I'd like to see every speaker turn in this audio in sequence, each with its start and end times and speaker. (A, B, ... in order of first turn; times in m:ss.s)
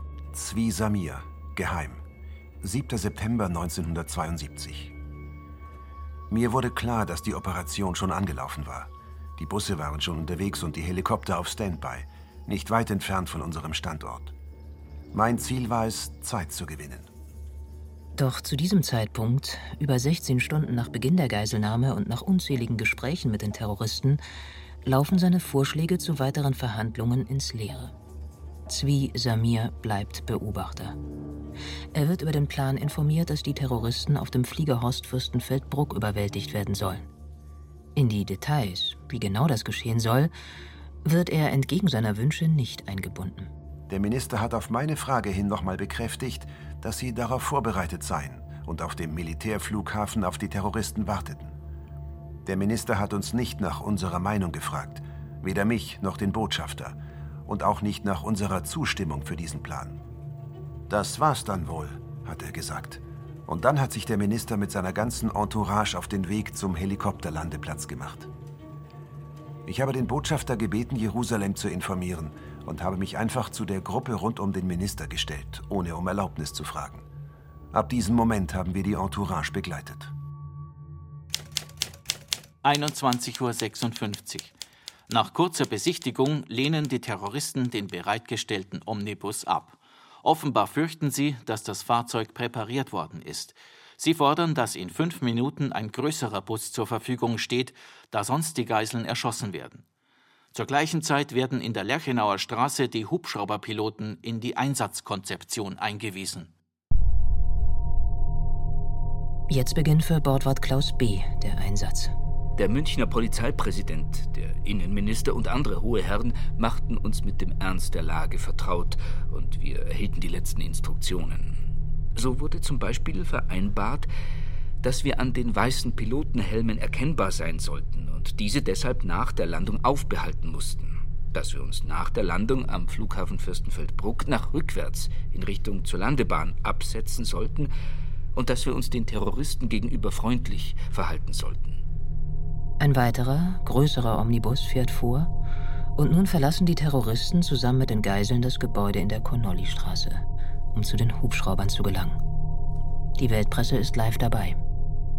0:00.3-0:02.0 A
0:02.6-0:04.9 A
0:06.3-0:14.3 A
0:15.1-0:17.1 A
0:18.1-0:24.2 B
0:24.8-0:27.9 B
0:28.7-0:31.0 B
0:31.9-0:37.1 B
0:37.9-0:40.3 B
0:41.0-0:43.5 B
0:43.9-0:51.5 A
0:52.4-1:00.0 A
1:00.9-1:08.3 A
1:09.6-1:17.0 A
1:17.7-1:20.1 A
1:22.6-1:24.5 C
1:25.1-1:39.8 C
1:40.5-1:46.5 C
1:49.5-1:52.1 B
1:52.6-2:01.6 D
2:02.1-2:04.1 D
2:04.8-2:17.7 D
2:18.3-2:21.8 D
2:22.8-2:25.3 B
2:26.0-2:30.2 B
2:30.7-2:32.2 B
2:33.2-2:34.6 B